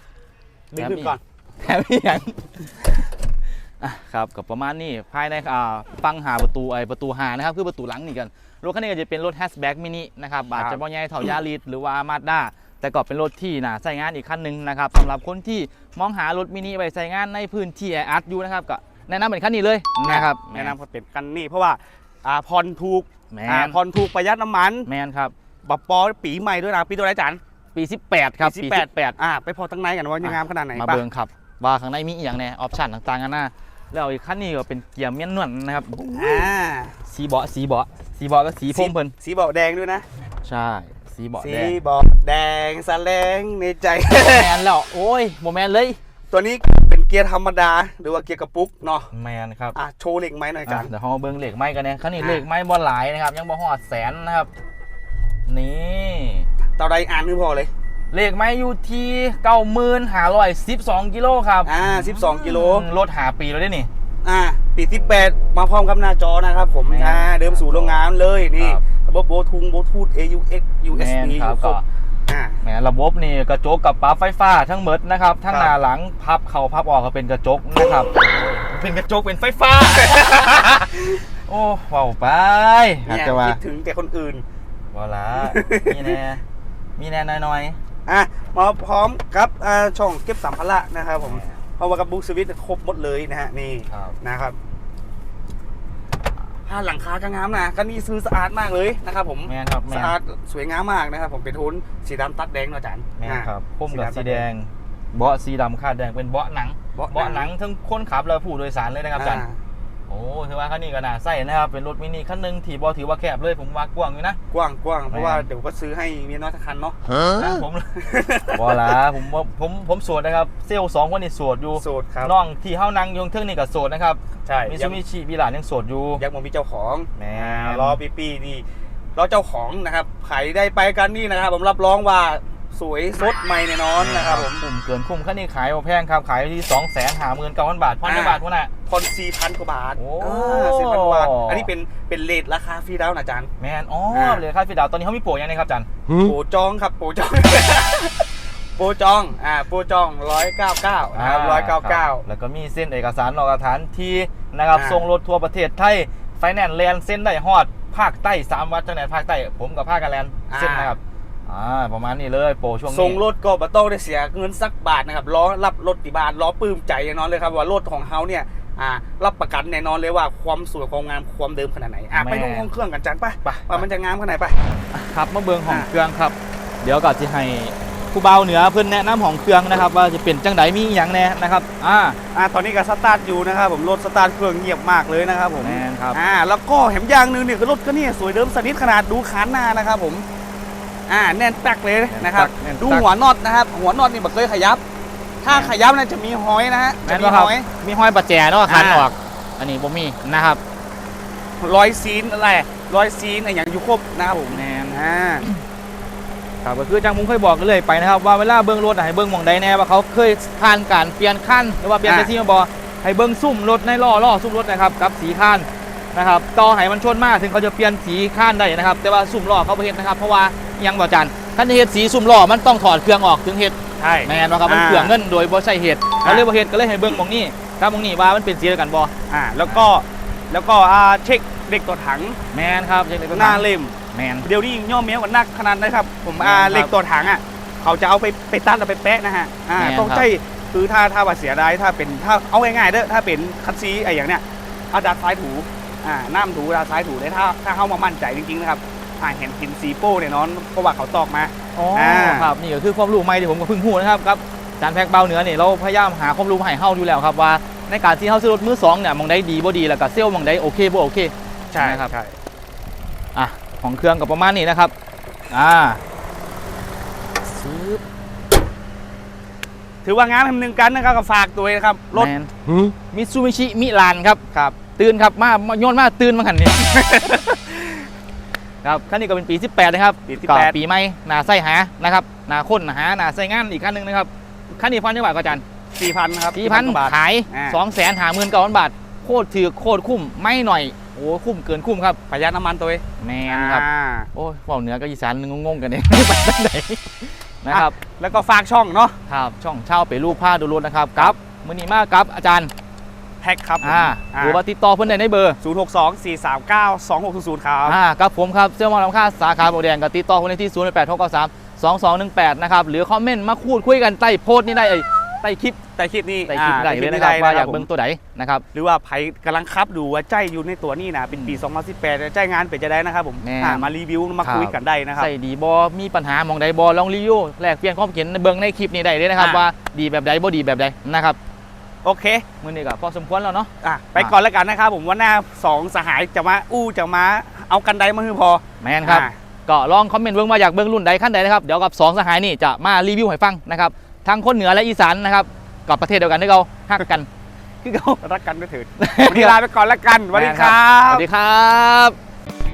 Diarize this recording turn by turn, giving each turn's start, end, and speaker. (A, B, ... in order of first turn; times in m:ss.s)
0:00.7-0:01.2 A
0:00.8-0:03.1 B
0:03.8-0:20.8 B
0:10.6-0:10.8 A
0:20.0-0:24.9 A
0:23.3-0:23.8 B
0:24.9-0:25.3 B
0:25.6-0:27.4 A
0:27.8-0:29.2 B
0:28.4-0:31.0 A
0:30.2-0:36.5 B
0:36.1-0:37.0 A
0:37.1-0:39.1 B
0:38.7-0:40.0 A
0:40.4-0:41.8 B
0:41.4-0:44.5 A
0:44.1-0:46.0 B
0:46.3-0:49.1 A
0:49.1-0:49.8 B
0:49.8-0:50.9 A
0:50.7-0:54.5 B
0:52.2-0:52.4 A
0:55.5-0:56.5 B
0:56.8-0:57.7 A
0:58.1-1:03.9 B
1:01.6-1:02.9 A
1:04.2-1:12.6 A
1:04.9-1:05.5 B
1:06.9-1:08.0 B
1:08.6-1:08.8 B
1:10.9-1:11.8 B
1:12.6-1:23.6 B
1:15.5-1:15.7 A
1:23.1-1:24.4 A
1:24.9-1:26.4 B
1:25.4-1:26.1 A
1:27.0-1:27.8 B
1:28.1-1:34.6 A
1:31.2-1:31.6 B
1:33.9-1:34.2 B
1:36.7-1:44.5 A
1:39.5-1:40.2 B
1:43.2-1:49.4 B
1:47.0-1:47.5 A
1:49.2-1:49.6 A
1:50.1-1:54.4 B
1:54.5-1:57.0 A
1:55.1-1:55.5 B
1:57.2-1:57.9 B
1:58.0-1:58.9 A
1:58.5-2:06.2 B
2:01.8-2:02.3 A
2:04.4-2:05.0 A
2:06.2-2:08.6 A
2:07.2-2:08.0 B
2:09.2-2:14.6 A
2:14.0-2:18.7 B
2:18.0-2:23.5 A
2:20.0-2:21.7 B
2:23.6-2:25.9 B
2:24.1-2:24.4 A
2:26.1-2:32.2 A
2:31.1-2:43.2 B
2:34.7-2:35.1 A
2:40.5-2:41.0 A
2:42.9-2:54.6 A
2:52.1-2:52.7 B
2:53.4-2:53.9 B
2:54.9-3:02.2 B
3:02.3-3:10.3 A
3:05.6-3:06.2 B
3:11.1-3:14.8 A
3:12.1-3:13.1 B
3:15.4-3:17.7 A
3:15.5-3:15.8 B
3:17.1-3:20.6 B
3:18.7-3:19.1 A
3:21.6-3:25.5 A
3:24.5-3:25.6 B
3:26.6-3:49.1 B
3:32.0-3:32.3 A
3:44.0-3:45.2 A
3:46.2-3:46.5 A
3:49.3-3:52.4 A
3:52.5-3:54.5 B
3:53.3-4:12.6 A
3:56.4-3:56.9 B
3:59.8-4:00.3 B
4:11.8-4:22.1 B
4:21.7-4:22.4 A
4:23.4-4:24.9 B
4:25.5-4:26.0 B
4:27.5-4:28.0 B
4:30.0-4:32.3 A
4:32.1-4:32.5 B
4:33.1-4:37.5 B
4:37.0-4:37.3 A
4:38.8-4:45.6 B
4:40.3-4:40.8 A
4:46.0-4:47.8 A
4:46.5-4:52.2 B
4:52.3-4:54.3 A
4:53.2-4:58.0 B
4:57.7-4:59.2 A
4:59.3-5:02.7 B
5:03.4-5:04.6 A
5:03.8-5:05.6 B
5:05.6-5:08.0 A
5:07.8-5:15.8 B
5:16.0-5:17.9 A
5:16.5-5:18.6 B
5:18.7-5:25.3 A
5:21.3-5:21.6 B
5:23.4-5:23.9 B
5:24.4-5:31.4 B
5:29.4-5:29.7 A
5:32.0-5:32.4 A
5:32.6-5:34.3 B
5:33.8-5:39.4 A
5:38.8-5:47.3 B
5:47.8-5:48.2 B
5:48.2-5:51.3 A
5:49.0-5:49.6 B
5:50.3-5:52.2 B